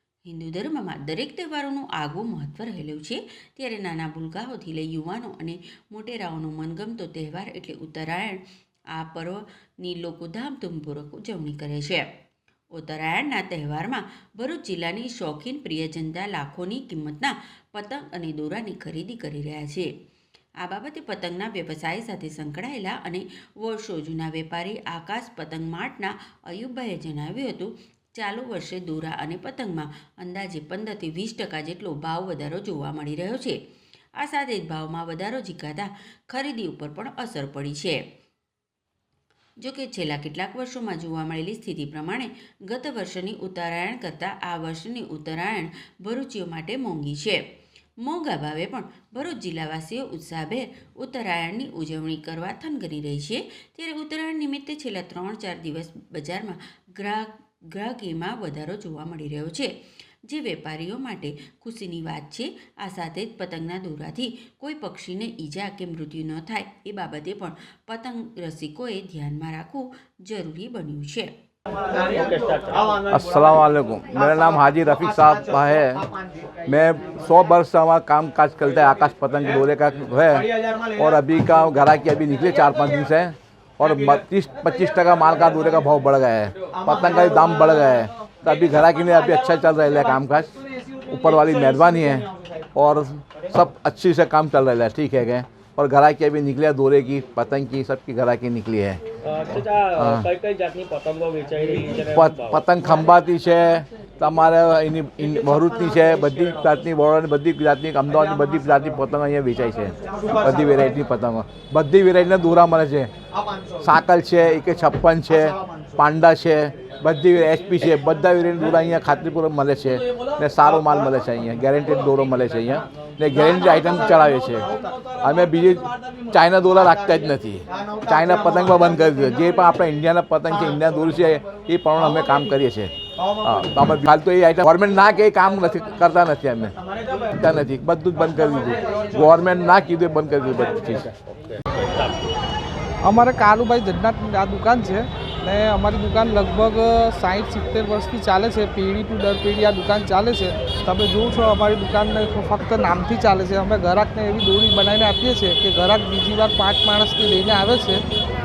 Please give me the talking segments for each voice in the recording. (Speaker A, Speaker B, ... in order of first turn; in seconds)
Speaker A: 0.3-8.4, 8.9-12.0, 12.7-19.9, 20.6-33.6, 34.2-38.0, 39.6-47.4, 48.0-59.7, 60.3-71.3
Speaker B: 71.9-73.1, 99.2-102.6, 141.1-142.3
Speaker C: 73.1-76.1, 76.7-90.5, 91.1-99.0, 100.0-100.3, 102.1-113.1, 113.8-132.9, 133.4-136.8, 137.4-141.1
Speaker D: 143.0-158.0